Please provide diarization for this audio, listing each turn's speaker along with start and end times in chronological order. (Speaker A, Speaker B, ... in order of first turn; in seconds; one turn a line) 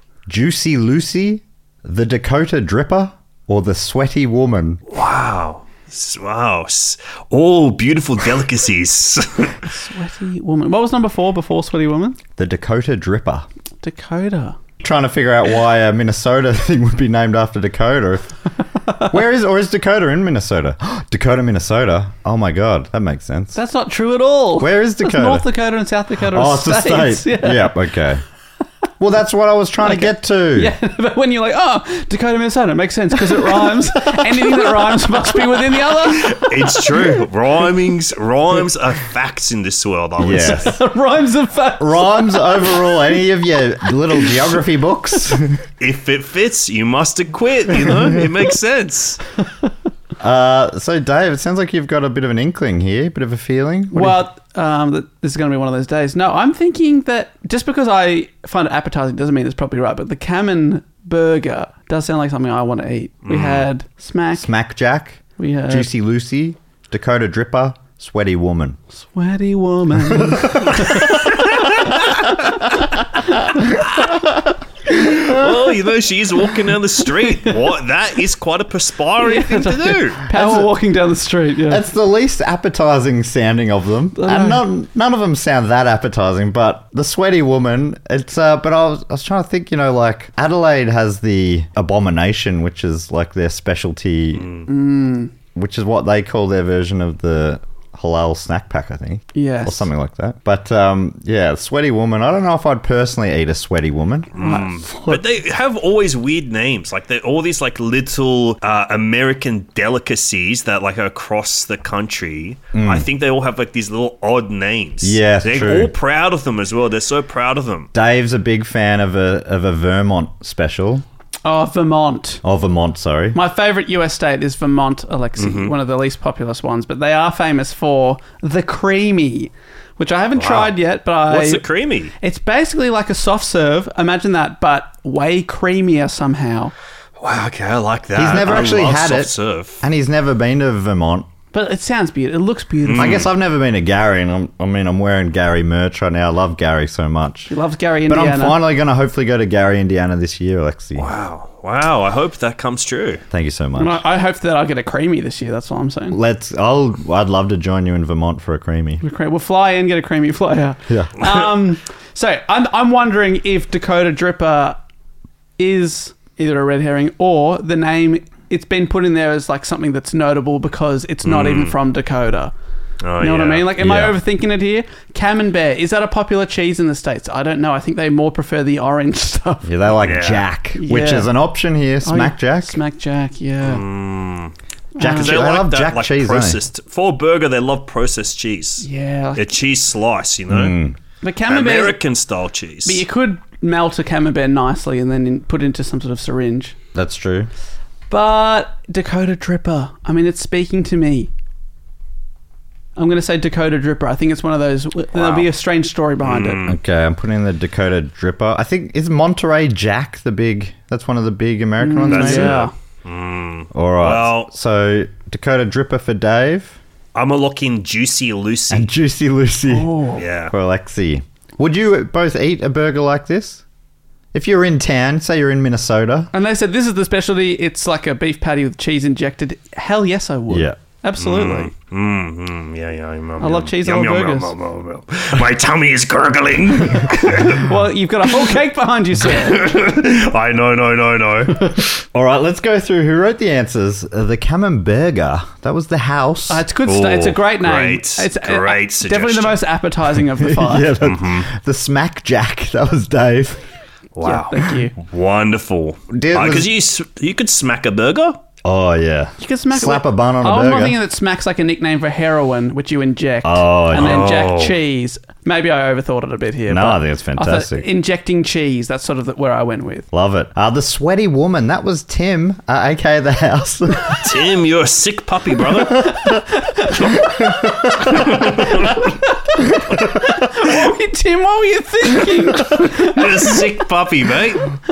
Speaker A: 0.3-4.8
Speaker B: 4.9-9.6
Speaker C: 9.7-12.2
Speaker A: 12.4-13.5
Speaker C: 13.8-14.6
Speaker A: 14.8-18.4
Speaker A: 19.1-23.6
Speaker C: 23.6-27.8
Speaker A: 24.6-25.5
Speaker A: 26.2-28.2
Speaker A: 29.0-30.7
Speaker C: 29.8-36.5
Speaker B: 36.2-40.6
Speaker A: 40.2-40.8
Speaker C: 40.4-42.9
Speaker A: 41.8-45.6
Speaker B: 45.8-49.2
Speaker A: 50.2-54.2
Speaker C: 53.9-64.5
Speaker B: 63.2-63.7
Speaker A: 64.3-68.8
Speaker C: 65.4-65.9
Speaker C: 69.0-72.8
Speaker A: 70.1-70.9
Speaker C: 73.4-73.8
Speaker B: 74.9-80.2
Speaker C: 79.2-81.9
Speaker A: 80.3-80.7
Speaker A: 81.7-94.6
Speaker C: 84.2-84.7
Speaker B: 94.4-94.7
Speaker C: 94.7-95.3
Speaker A: 95.5-104.4
Speaker C: 99.3-99.9
Speaker B: 104.3-117.9
Speaker C: 104.4-105.1
Speaker A: 112.7-113.1
Speaker A: 115.0-115.9
Speaker A: 117.9-121.1
Speaker C: 121.5-122.4
Speaker A: 122.4-123.4
Speaker C: 123.3-131.6
Speaker B: 125.4-125.7
Speaker B: 130.4-132.1
Speaker C: 132.2-136.7
Speaker B: 137.2-139.8
Speaker A: 138.2-141.3
Speaker C: 141.5-143.2
Speaker B: 142.8-143.3
Speaker A: 143.0-147.5
Speaker C: 147.5-148.6
Speaker A: 148.1-151.1
Speaker B: 151.0-153.2
Speaker A: 153.3-154.0
Speaker C: 153.8-156.2
Speaker A: 156.1-159.0
Speaker C: 159.0-164.8
Speaker A: 160.9-161.1
Speaker C: 165.6-172.5
Speaker B: 171.2-171.8
Speaker B: 173.0-173.7
Speaker C: 173.2-179.9
Speaker A: 173.8-174.2
Speaker A: 179.6-182.8
Speaker B: 180.0-180.4
Speaker C: 180.8-181.3
Speaker C: 182.0-183.8
Speaker B: 183.6-184.5
Speaker C: 185.0-185.3
Speaker A: 185.0-186.6
Speaker B: 185.2-190.7
Speaker C: 188.8-189.4
Speaker A: 190.5-191.0
Speaker C: 191.2-192.0
Speaker B: 191.5-193.0
Speaker C: 192.8-196.8
Speaker A: 196.9-197.5
Speaker C: 198.1-201.3
Speaker C: 203.0-206.6
Speaker B: 205.2-205.5
Speaker B: 206.2-206.8
Speaker A: 206.7-212.6
Speaker C: 211.8-212.7
Speaker B: 212.1-214.5
Speaker A: 213.7-216.8
Speaker B: 217.2-218.9
Speaker A: 218.7-223.6
Speaker C: 219.7-220.2
Speaker B: 220.2-220.5
Speaker A: 224.3-226.3
Speaker C: 226.3-231.7
Speaker A: 230.5-230.8
Speaker B: 231.2-237.7
Speaker C: 233.4-234.5
Speaker C: 237.4-239.7
Speaker B: 239.3-241.9
Speaker A: 242.1-246.6
Speaker C: 246.5-250.9
Speaker B: 246.8-249.6
Speaker A: 250.4-253.7
Speaker B: 251.0-251.5
Speaker B: 254.2-258.4
Speaker C: 254.2-254.9
Speaker A: 256.1-256.7
Speaker A: 258.6-261.0
Speaker C: 259.4-270.1
Speaker A: 263.4-264.4
Speaker B: 263.9-264.8
Speaker A: 266.7-267.9
Speaker A: 270.1-274.4
Speaker B: 274.1-276.3
Speaker C: 276.3-277.3
Speaker A: 277.2-278.7
Speaker B: 278.1-279.0
Speaker C: 279.2-283.7
Speaker B: 282.8-284.7